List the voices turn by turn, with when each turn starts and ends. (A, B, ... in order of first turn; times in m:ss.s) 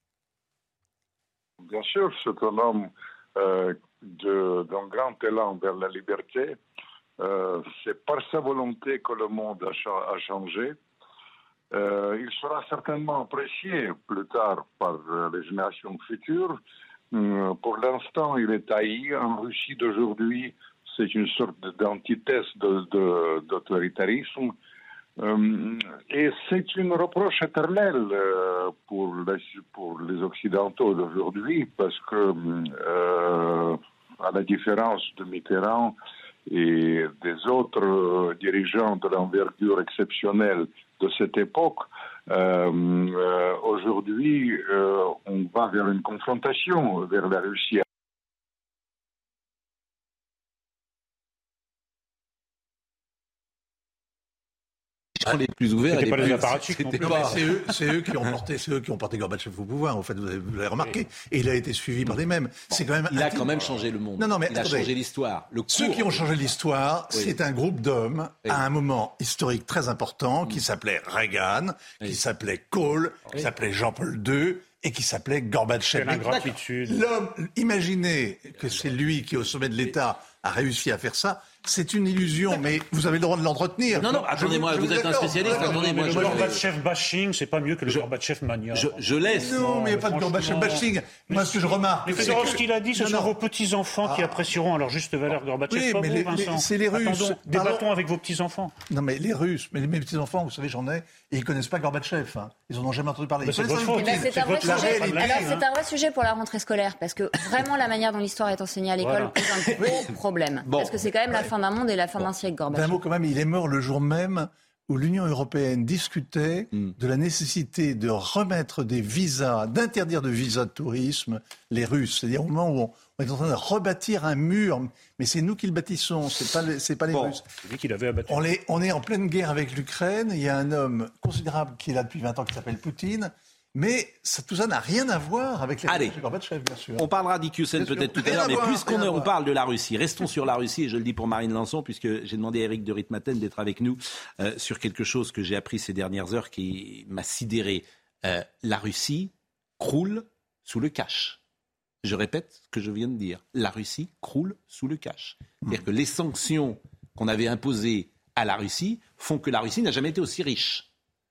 0:01.6-0:06.6 A
0:07.2-0:10.8 A
0:11.7-0:16.6 A
0:17.1-0:24.5 A
0:25.2-0:36.0 A
0:36.5-0:47.8 A
0:55.2-0:57.4 B
0:55.9-0:57.5 C
0:56.9-1:03.7 D
1:02.7-1:06.4 B
1:04.2-1:04.9 D
1:05.7-1:26.5 D
1:15.9-1:17.0 C
1:24.0-1:26.6 B
1:25.4-1:38.7 C
1:28.7-1:29.5 B
1:29.3-1:33.3 D
1:34.0-1:34.4 D
1:35.7-1:37.8 D
1:38.9-1:45.6 D
1:43.4-1:45.6 C
1:43.9-1:53.0 E
1:49.0-1:49.3 C
1:49.6-1:50.0 B
1:50.6-1:51.4 B
1:52.7-2:07.4 D
2:07.1-2:07.4 B
2:07.6-2:08.5 C
2:08.3-2:17.1 D
2:15.9-2:16.2 B
2:17.0-2:31.4 B
2:17.8-2:19.3 D
2:32.0-2:40.8 B